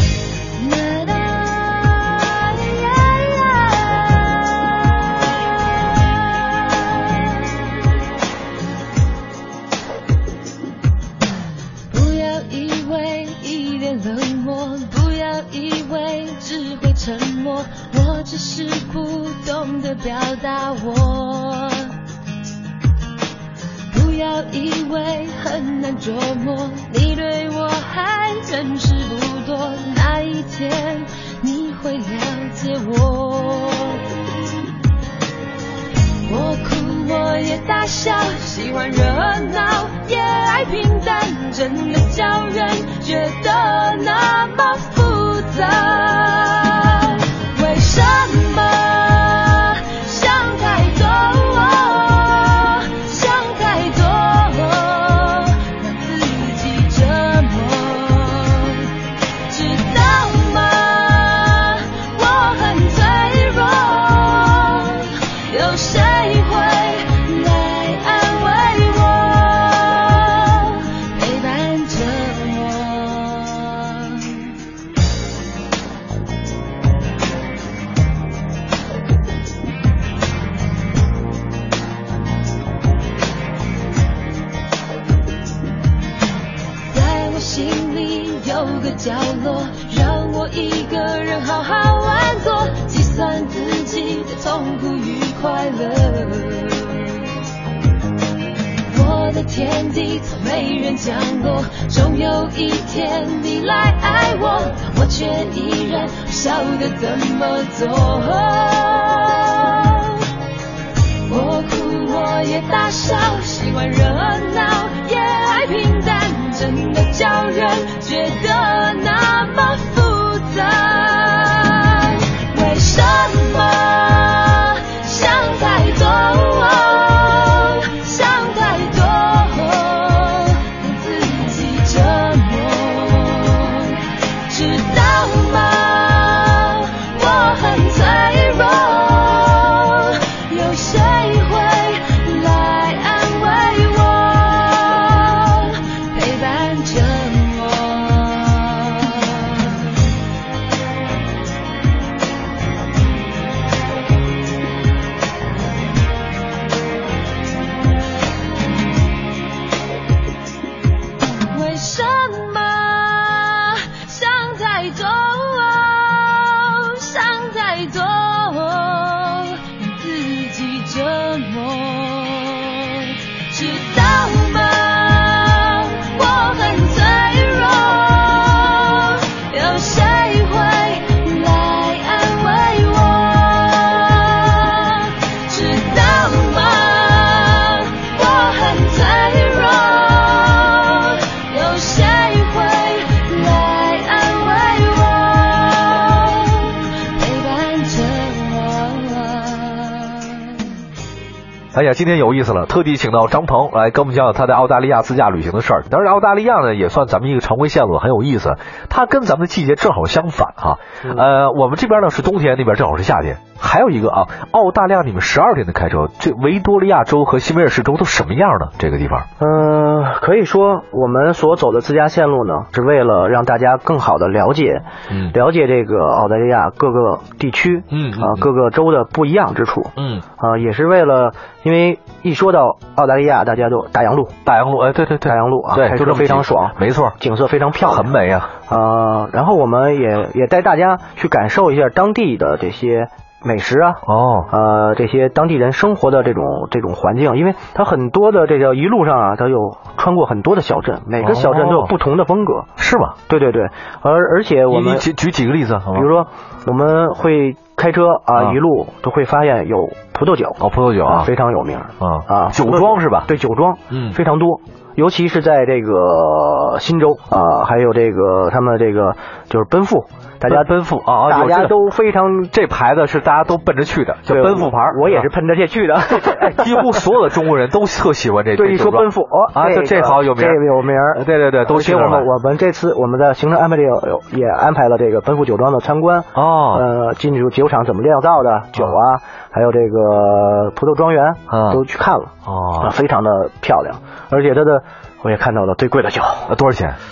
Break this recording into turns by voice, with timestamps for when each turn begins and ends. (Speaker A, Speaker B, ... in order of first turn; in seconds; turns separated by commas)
Speaker A: 0.6-5.3, Speaker A: 6.0-8.0, Speaker A: 11.9-22.0, Speaker A: 23.9-34.1, Speaker A: 36.2-74.6, Speaker A: 86.9-97.4, Speaker A: 98.8-110.4, Speaker A: 111.2-150.0, Speaker A: 161.5-200.8, Speaker B: 201.7-219.3, Speaker C: 219.4-234.3, Speaker B: 225.1-225.3, Speaker B: 227.9-228.4, Speaker B: 230.0-230.2, Speaker B: 234.4-237.2, Speaker C: 235.2-238.1, Speaker B: 237.8-238.5, Speaker C: 238.6-252.7, Speaker B: 244.0-244.5, Speaker B: 251.2-251.9, Speaker B: 252.8-253.2, Speaker C: 253.3-255.1, Speaker B: 254.7-256.1, Speaker C: 255.9-270.7, Speaker B: 260.6-261.3, Speaker B: 262.0-263.3, Speaker B: 263.9-264.2, Speaker B: 270.5-271.8, Speaker C: 271.2-272.5, Speaker B: 272.5-275.2, Speaker C: 274.2-277.0, Speaker B: 276.1-282.3, Speaker C: 278.5-296.5, Speaker B: 286.3-286.8, Speaker B: 291.5-291.8, Speaker B: 292.4-292.9, Speaker B: 296.5-297.0